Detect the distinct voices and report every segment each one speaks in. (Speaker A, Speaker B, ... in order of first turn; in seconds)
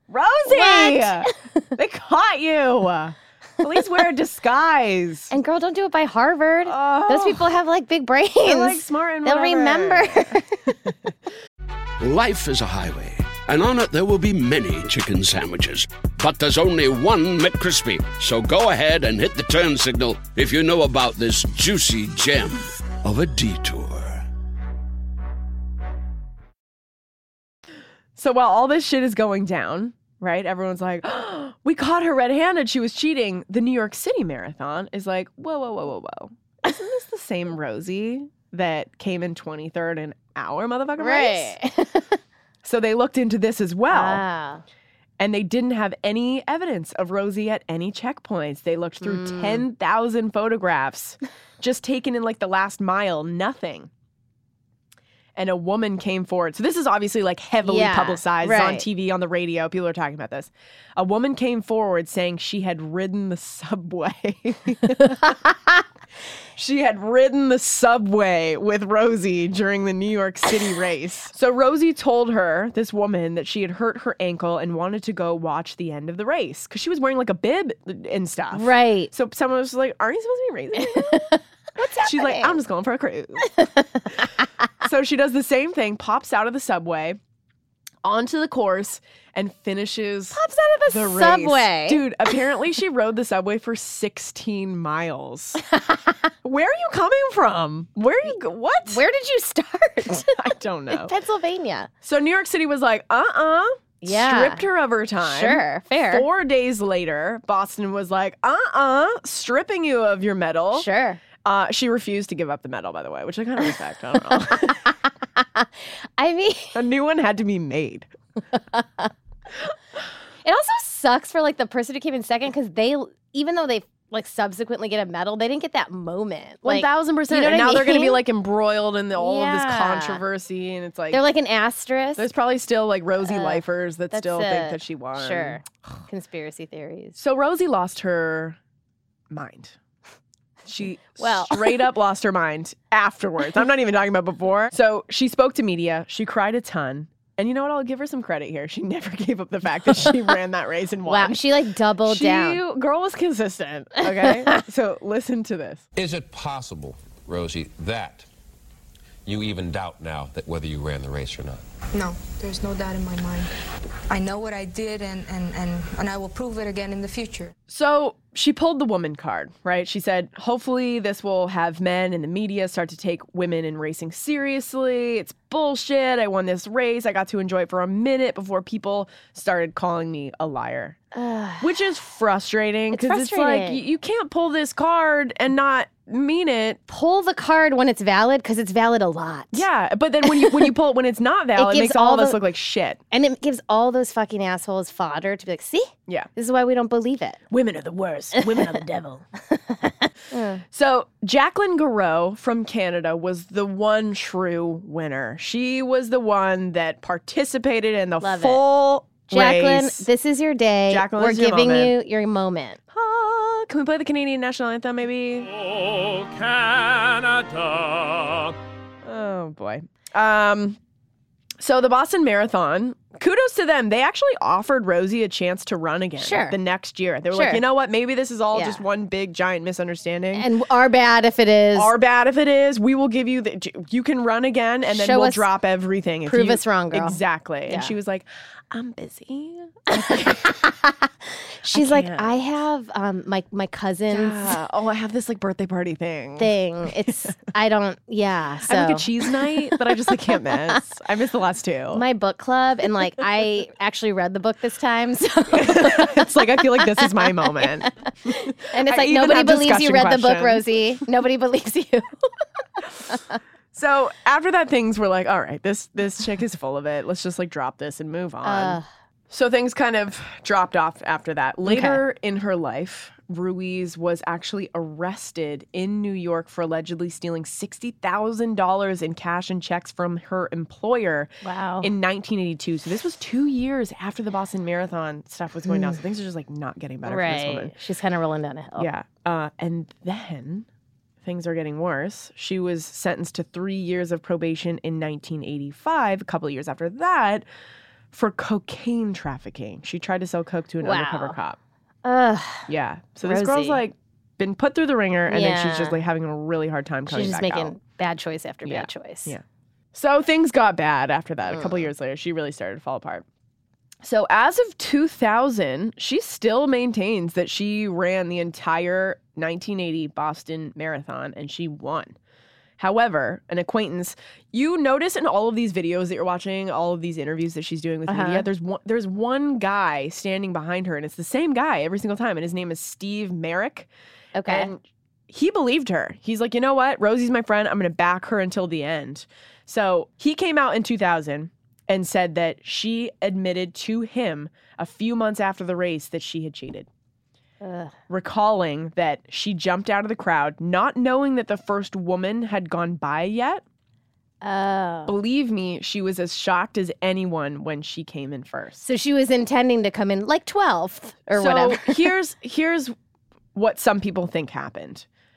Speaker A: 0.1-5.3, 6.6-7.5, 8.4-10.4, 28.1-41.6, 42.6-44.2, 45.2-53.9, 55.4-65.3, 66.5-83.5, 84.8-87.2, 88.0-95.6, 96.4-99.0, 100.1-101.1, 102.0-110.9, 111.4-114.9, 116.7-118.1, 126.6-131.2, 132.2-135.6, 137.2-138.6, 139.3-139.8, 140.6-155.8, 167.7-181.0, 181.6-186.8, 189.5-193.0, 197.5-199.2, 200.7-210.1, 210.9-211.9, 212.9-215.5, 219.0-220.8, 221.6-230.5, 231.7-240.6, 241.7-242.3, 244.1-246.5, 248.6-252.0, 255.5-260.6, 263.7-287.7, 288.8-290.7, 291.2-297.4, 298.1-301.6, 302.7-307.8, 308.6-309.4, 309.9-313.2, 314.0-322.1, 322.8-333.9, 334.4-346.9, 348.1-353.6, 355.1-358.8, 361.4-362.9, 363.5-365.1
Speaker B: 0.5-1.7, 5.3-10.8, 41.0-42.2, 43.9-44.6, 49.0-49.6, 57.6-58.9, 78.5-79.1, 80.7-82.6, 83.5-84.3, 90.3-92.1, 95.7-96.2, 98.9-101.9, 104.0-104.6, 105.2-106.3, 110.7-111.2, 114.3-116.8, 118.5-119.1, 120.4-128.2, 129.1-130.2, 131.1-132.3, 133.2-137.2, 141.0-141.9, 151.0-152.6, 154.2-154.5, 181.1-181.7, 182.9-183.8, 186.9-189.6, 190.2-190.7, 191.6-192.4, 193.1-197.4, 198.3-198.8, 199.4-200.6, 208.2-208.6, 209.3-212.8, 226.2-226.6, 227.3-227.6, 228.5-228.8, 230.3-231.9, 234.8-235.5, 236.2-237.9, 239.9-241.1, 241.6-244.6, 246.4-249.9, 251.9-262.2, 268.4-268.9, 271.6-272.0, 281.4-281.9, 287.0-288.9, 300.8-301.4, 302.0-302.7, 303.2-303.8, 305.3-306.0, 307.1-309.4, 311.4-311.9, 328.1-328.5, 334.4-334.7, 347.6-347.9, 354.4-355.1, 358.8-362.1
Speaker C: 12.0-24.2, 216.2-217.4
Speaker D: 155.9-158.2, 159.2-161.6
Speaker E: 161.9-163.5, 164.1-167.5